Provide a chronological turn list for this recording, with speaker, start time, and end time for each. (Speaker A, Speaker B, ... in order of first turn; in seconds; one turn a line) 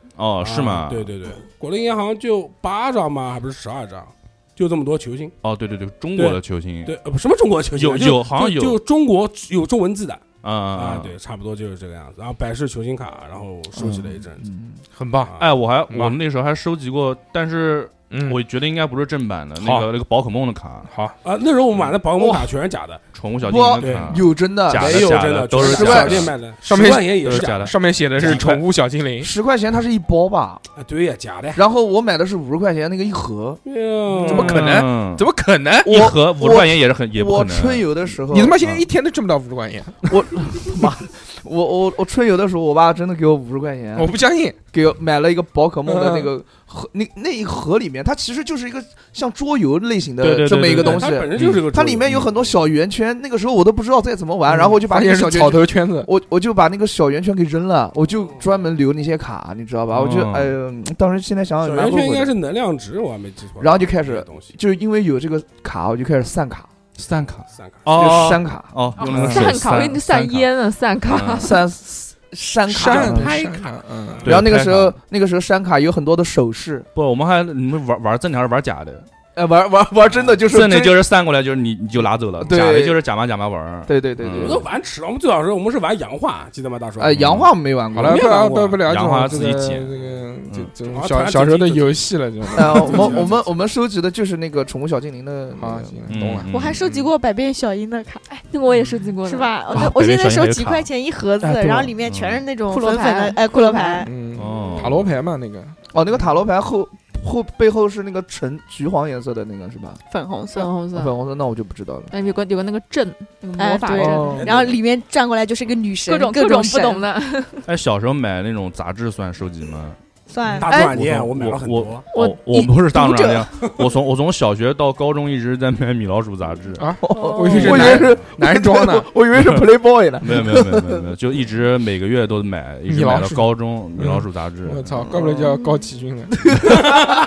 Speaker A: 0.1-1.1
Speaker B: 0.4-5.3
Speaker A: 5.4-7.0
Speaker B: 6.1-14.5
Speaker A: 7.7-8.8
Speaker A: 10.4-11.1
Speaker C: 14.4-14.8
Speaker D: 14.9-15.3
Speaker A: 15.4-20.9
Speaker D: 15.9-16.2
Speaker D: 18.1-18.4
Speaker D: 19.6-19.9
Speaker D: 20.9-21.1
Speaker B: 21.2-23.0
Speaker C: 22.2-22.5
Speaker A: 23.1-26.4
Speaker C: 23.4-25.1
Speaker B: 23.8-28.6
Speaker C: 25.6-26.3
Speaker D: 26.6-29.3
Speaker A: 27.2-28.5
Speaker C: 29.2-30.6
Speaker B: 30.8-31.6
Speaker C: 31.5-33.6
Speaker B: 33.6-34.7
Speaker D: 34.2-35.9
Speaker A: 34.2-35.3
Speaker A: 35.8-37.9
Speaker C: 35.9-38.5
Speaker D: 38.3-40.1
Speaker C: 40.0-44.1
Speaker D: 44.0-44.6
Speaker C: 44.7-62.3
Speaker D: 45.9-46.3
Speaker A: 50.2-52.2
Speaker B: 50.5-52.6
Speaker D: 54.5-56.1
Speaker A: 59.9-60.5
Speaker B: 61.6-64.5
Speaker C: 63.6-66.7
Speaker A: 67.0-70.5
Speaker B: 67.5-67.9
Speaker C: 67.9-68.8
Speaker E: 69.0-71.6
Speaker D: 69.1-69.4
Speaker A: 71.0-71.5
Speaker C: 71.2-73.6
Speaker D: 72.7-74.5
Speaker A: 74.2-74.9
Speaker C: 74.2-76.9
Speaker A: 76.9-79.1
Speaker C: 79.3-81.1
Speaker B: 80.1-80.3
Speaker A: 80.4-84.7
Speaker C: 82.4-83.0
Speaker C: 83.9-84.6
Speaker B: 84.3-87.2
Speaker C: 87.0-88.4
Speaker A: 87.1-87.5
Speaker D: 87.9-93.2
Speaker B: 88.0-88.8
Speaker A: 88.8-89.9
Speaker B: 90.8-93.4
Speaker C: 92.5-96.0
Speaker D: 95.6-97.0
Speaker A: 96.1-96.8
Speaker F: 96.5-98.2
Speaker E: 98.3-99.6
Speaker F: 99.2-104.1
Speaker A: 99.7-100.9
Speaker D: 101.4-101.9
Speaker A: 102.0-102.4
Speaker E: 102.6-104.1
Speaker D: 104.0-105.8
Speaker A: 104.3-105.1
Speaker C: 105.9-110.0
Speaker F: 110.1-110.7
Speaker E: 110.5-111.1
Speaker C: 110.9-112.1
Speaker E: 112.1-114.4
Speaker F: 113.6-117.0
Speaker C: 113.9-114.5
Speaker B: 114.3-114.8
Speaker E: 116.0-117.6
Speaker A: 117.7-120.0
Speaker F: 120.3-120.8
Speaker B: 120.6-122.1
Speaker E: 120.7-120.9
Speaker A: 120.8-126.9
Speaker E: 122.1-123.2
Speaker F: 122.5-123.4
Speaker D: 126.8-129.1
Speaker C: 127.0-131.1
Speaker B: 128.0-128.2
Speaker A: 129.3-129.6
Speaker A: 130.2-135.1
Speaker D: 132.9-136.6
Speaker C: 136.5-136.8